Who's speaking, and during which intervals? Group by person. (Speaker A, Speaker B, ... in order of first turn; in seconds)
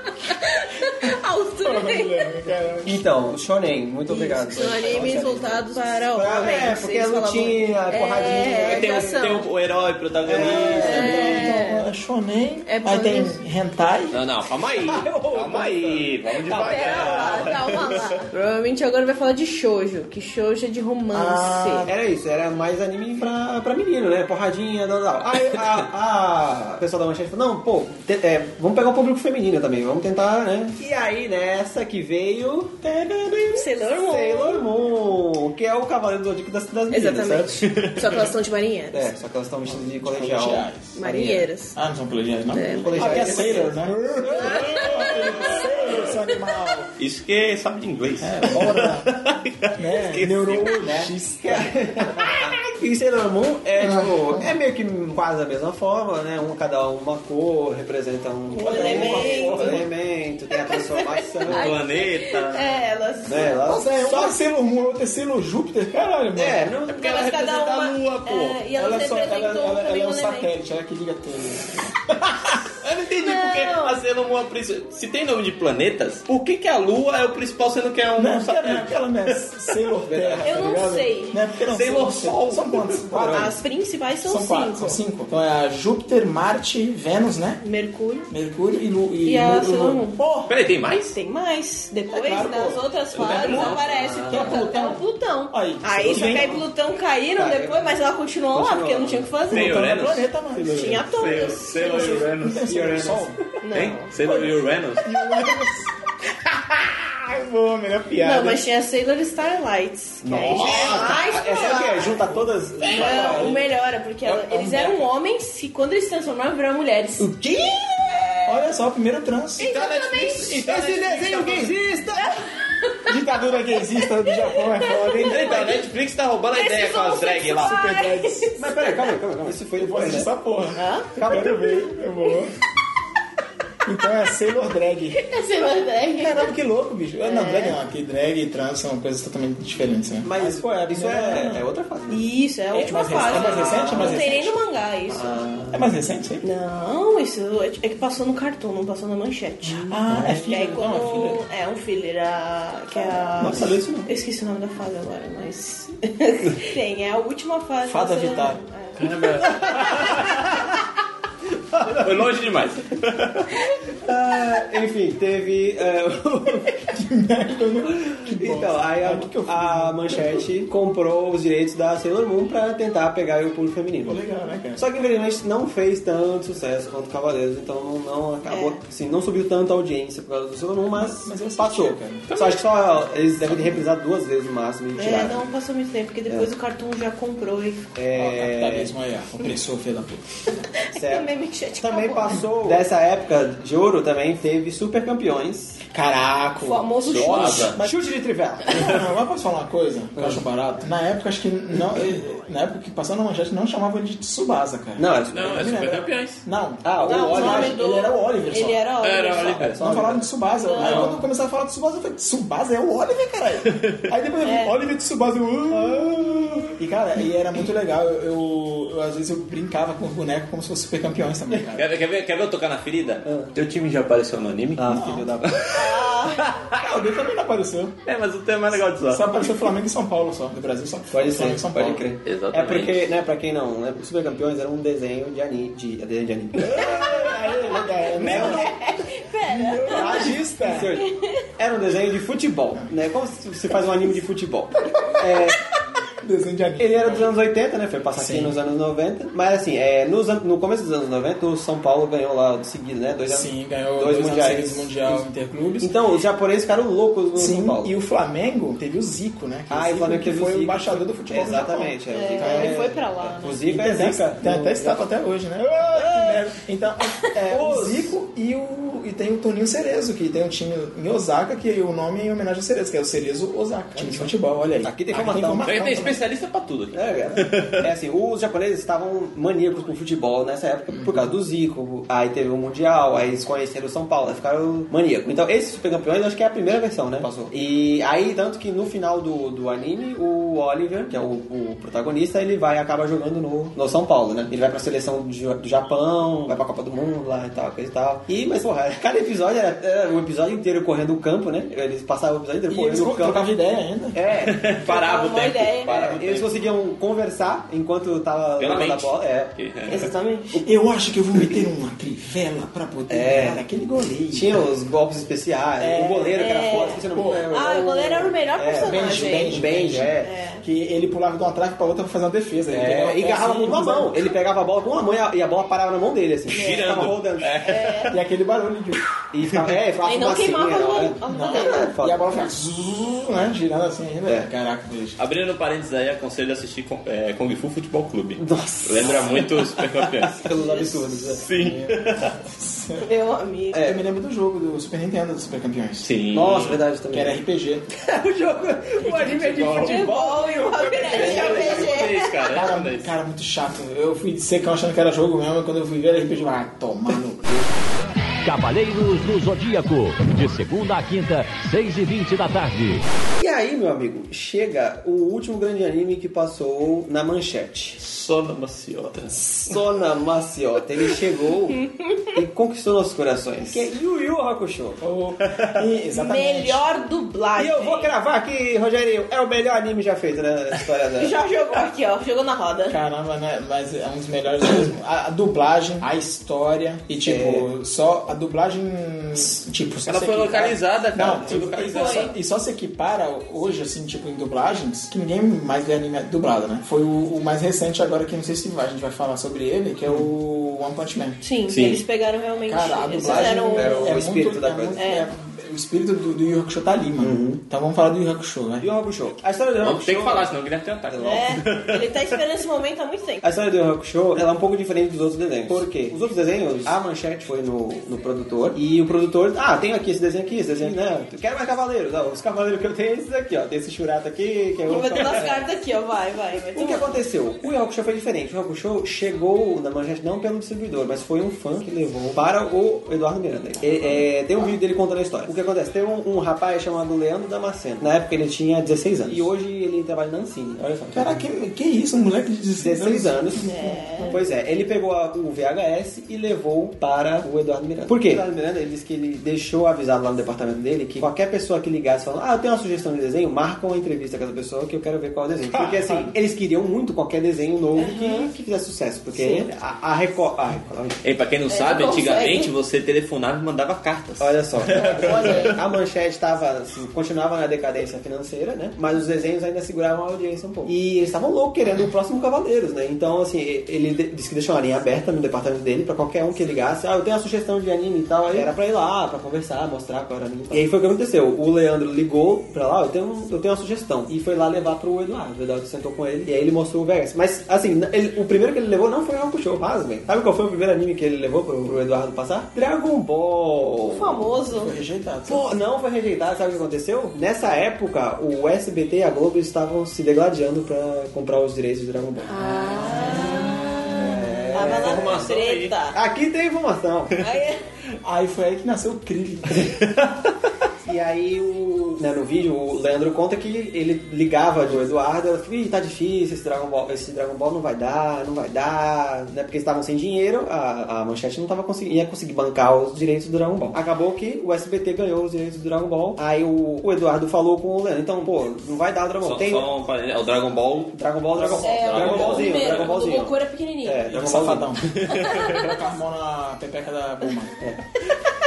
Speaker A: 0.3-2.3, 4.1-9.5, 10.4-11.9, 12.7-13.3, 16.6-21.9, 33.5-34.7, 36.9-39.1, 40.9-41.8, 42.5-45.6, 58.5-59.8, 60.5-64.3, 66.9-70.5, 73.2-74.0, 80.4-81.4, 83.1-85.0, 87.6-88.3, 89.2-90.2, 91.1-99.9, 100.6-102.1, 103.6-104.1, 108.2-118.7, 119.6-120.6, 124.2-125.8, 126.5-129.1, 130.7-131.2, 135.1-136.6, 137.2-137.8, 142.1-145.8, 146.4-159.1, 178.5-178.8, 185.0-187.9, 190.8-192.5, 196.6-197.8, 207.0-209.6, 210.5-211.1, 214.4-214.7, 225.7-226.4, 238.2-241.4, 262.1-263.6, 304.8-306.0, 309.9-310.5, 316.3-319.7, 320.2-320.6, 326.5-327.0, 327.6-328.2, 330.1-331.9, 340.6-340.8, 343.0-343.9, 349.8-352.3, 376.1-378.1, 381.2-383.0, 391.9-392.3, 401.4-404.1, 404.9-405.3, 411.2-413.4, 424.9-427.2, 443.6-444.4, 457.9-458.5, 459.3-459.7, 461.7-462.7, 464.9-465.8, 494.1-494.9, 502.4-506.2, 507.4-507.8, 531.6-534.3, 535.3-535.8
Speaker B: 1.6-3.1, 10.4-14.2, 15.4-17.4, 21.1-21.9, 39.6-41.0, 41.8-46.9, 48.2-49.2, 49.7-52.4, 53.8-54.6, 58.5-59.9, 63.6-66.8, 68.7-72.6, 78.2-83.6, 84.2-87.6, 88.3-90.5, 92.1-96.6, 99.5-103.4, 104.2-105.9, 106.4-108.6, 110.4-113.6, 114.2-115.1, 117.2-117.8, 118.4-121.7, 123.1-125.8, 127.5-128.5, 129.7-132.5, 133.8-135.3, 136.1-141.7, 142.7-144.5, 145.7-146.4, 149.7-151.4, 157.8-158.6, 166.8-170.5, 174.0-174.8, 180.9-182.3, 183.1-183.9, 188.1-190.6, 195.9-198.0, 198.6-208.8, 209.8-221.9, 224.8-225.3, 226.7-227.9, 229.0-232.0, 236.6-238.7, 239.5-240.9, 244.8-245.5, 246.2-247.3, 248.1-248.6, 253.3-255.9, 257.3-262.8, 263.7-276.2, 280.9-281.3, 302.7-304.2, 310.6-314.6, 315.8-316.5, 317.1-317.5, 318.8-324.3, 328.1-329.0, 331.2-335.2, 341.6-343.1, 343.7-346.1, 347.1-347.8, 352.5-357.6, 375.0-376.8, 382.9-401.4, 402.6-408.9, 441.1-444.3, 455.8-456.3, 494.6-495.7, 502.6-505.0, 508.2-510.0, 534.3-537.8
Speaker C: 2.8-9.2, 10.2-11.3, 14.8-17.4, 21.8-37.6, 38.9-41.5, 42.8-44.7, 51.4-61.8, 63.2-64.1, 66.3-67.0, 80.1-80.7, 83.1-83.4, 97.3-98.0, 98.5-99.3, 102.7-103.3, 110.2-113.6, 120.6-122.3, 128.6-130.3, 131.1-131.7, 140.2-142.2, 143.2-144.2, 145.1-145.8, 152.9-154.1, 161.8-162.0, 164.0-166.7, 168.0-174.2, 174.8-185.4, 187.9-188.9, 190.9-195.8, 197.8-198.8, 200.1-200.4, 205.0-205.6, 206.8-207.8, 209.4-210.3, 210.8-211.1, 223.2-223.5, 224.8-225.6, 231.1-237.1, 238.2-238.7, 240.0-241.1, 241.6-245.6, 246.8-255.3, 255.8-257.9, 259.7-265.1, 267.5-268.1, 273.9-276.1, 276.9-303.5, 304.1-304.6, 305.9-309.5, 313.1-313.6, 314.3-320.3, 322.7-327.7, 329.3-332.5, 338.4-339.6, 340.3-341.4, 343.7-344.0, 346.3-347.4, 347.9-351.9, 363.4-368.0, 369.5-371.8, 372.3-375.0, 377.6-381.3, 387.2-387.7, 403.2-405.0, 407.2-407.6, 408.8-410.5, 411.1-411.4, 413.4-425.6, 426.7-441.4, 442.8-443.7, 444.3-461.2, 464.4-494.5, 495.5-502.5, 504.1-505.4, 506.1-507.4, 511.0-529.9, 531.1-535.0
Speaker D: 8.6-11.3, 14.1-18.2, 37.7-38.3, 47.0-51.1, 61.5-62.9, 66.9-68.6, 72.8-79.4, 81.7-83.0, 90.5-91.1, 93.1-94.6, 96.0-96.5, 99.5-102.7, 103.7-105.4, 119.7-121.7, 125.2-127.8, 158.9-160.4, 161.9-163.5, 182.3-182.6, 197.0-197.8, 205.3-206.4, 209.0-209.8, 210.8-211.1, 213.7-214.1, 221.7-224.8, 225.5-226.8, 228.0-229.7, 232.2-233.1, 275.6-277.9, 304.3-306.7, 308.6-310.1, 326.5-328.2, 335.2-340.4, 341.4-342.3, 346.0-346.8, 349.1-350.1, 351.1-353.1, 368.0-369.7, 390.1-392.3, 401.7-402.0, 409.8-412.4, 461.2-465.7, 504.8-505.9, 529.4-533.2, 535.1-535.6
Speaker E: 358.4-363.0